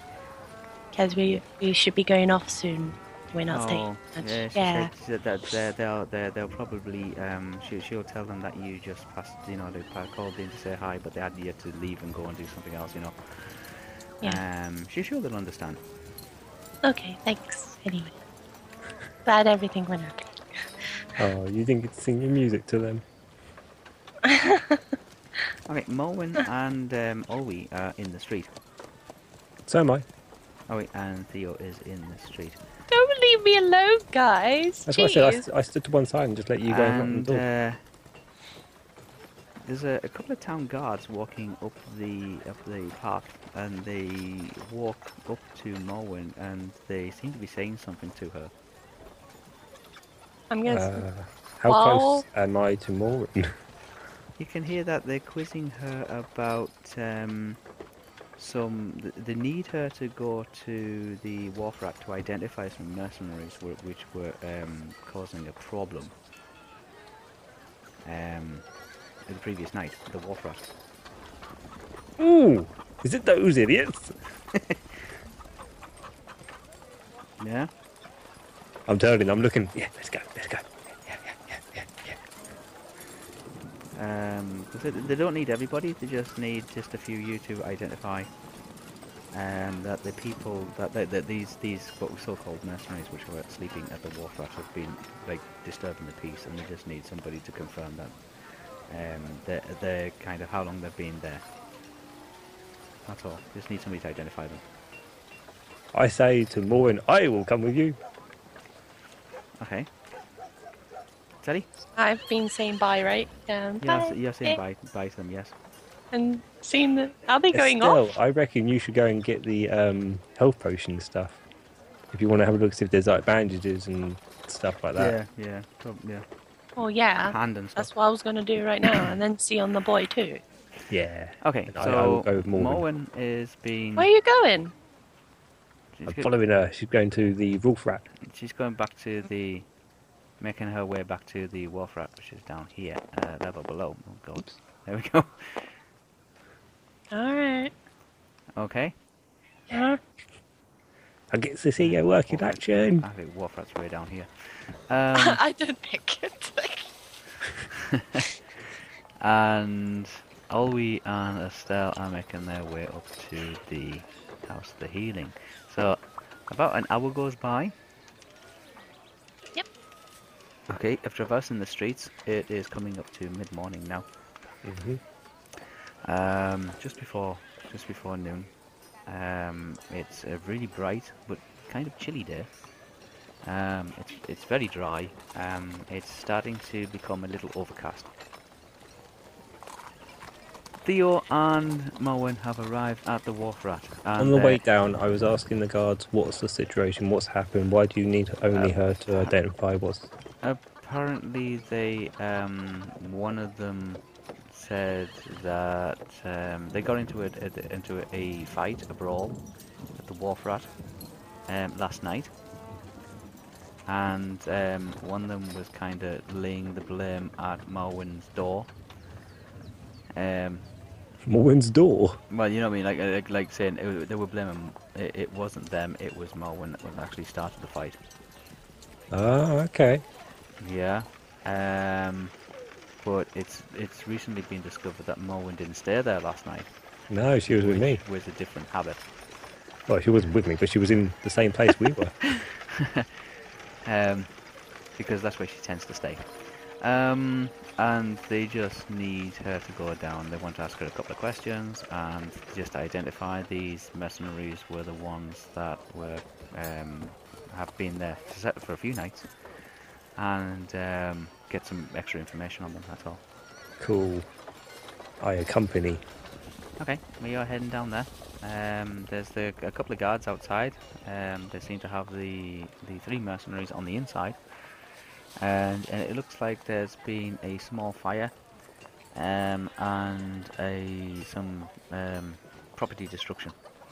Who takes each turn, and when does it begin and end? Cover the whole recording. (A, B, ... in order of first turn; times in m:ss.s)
0:00.9-0:04.9 A
0:03.5-0:13.6 B
0:14.2-0:15.8 B
0:16.8-0:18.1 A
0:19.2-0:20.8 A
0:21.2-0:23.0 C
0:24.2-0:24.8 A
0:25.7-0:28.5 B
0:29.6-0:30.0 C
0:30.7-0:32.6 B
0:32.9-0:35.4 A
0:34.9-0:37.4 C
0:36.7-0:37.8 B
0:39.6-0:48.5 B
0:50.5-0:51.0 A
0:50.7-0:53.5 C
0:51.7-0:52.2 A
0:54.4-0:57.6 B
0:58.4-1:06.1 B
1:08.0-1:08.6 B
1:09.3-1:10.6 B
1:12.2-1:14.1 C
1:14.5-1:14.8 B
1:17.4-1:17.7 B
1:18.9-1:22.2 C
1:23.9-1:28.3 B
1:29.3-1:38.2 B
1:38.9-1:41.4 B
1:43.1-1:44.6 B
1:45.9-1:48.0 C
1:49.6-1:49.9 B
1:51.4-1:51.7 B
1:52.0-1:54.6 A
1:53.8-1:55.5 B
1:56.1-1:58.1 A
1:57.5-2:01.4 C
2:02.1-2:05.2 C
2:05.0-2:06.2 B
2:06.8-2:10.4 A
2:07.2-2:07.9 B
2:10.9-2:12.8 C
2:11.4-2:14.1 B
2:14.0-2:14.7 A
2:15.9-2:16.3 B
2:16.1-2:18.0 C
2:18.2-2:19.7 B
2:20.4-2:25.7 B
2:27.1-2:27.7 A
2:28.6-2:28.9 B
2:29.7-2:30.0 A
2:31.3-2:33.0 C
2:31.8-2:35.4 B
2:35.1-2:36.9 A
2:37.7-2:38.3 B
2:39.2-2:47.7 B
2:50.7-2:54.0 B
2:54.6-2:55.0 C
2:56.0-2:58.5 B
2:59.1-3:02.5 B
3:03.4-3:08.1 B
3:10.8-3:14.6 B
3:14.2-3:20.1 C
3:18.5-3:19.3 B
3:20.4-3:29.4 B
3:30.0-3:30.7 B
3:31.5-3:32.3 B
3:33.9-3:38.7 B
3:40.1-3:40.6 B
3:41.2-3:42.2 C
3:42.3-3:48.0 B
3:49.1-3:50.0 C
3:50.6-3:52.3 B
3:53.0-3:56.7 B
3:57.1-3:58.0 C
3:57.5-3:59.0 B
3:59.9-4:02.1 C
4:02.3-4:03.1 B
4:03.8-4:04.3 B
4:05.0-4:06.2 B
4:06.8-4:19.3 B
4:20.2-4:23.2 B
4:23.8-4:24.3 C
4:25.2-4:26.0 C
4:26.8-4:34.4 B
4:35.4-4:38.3 B
4:39.1-4:43.5 B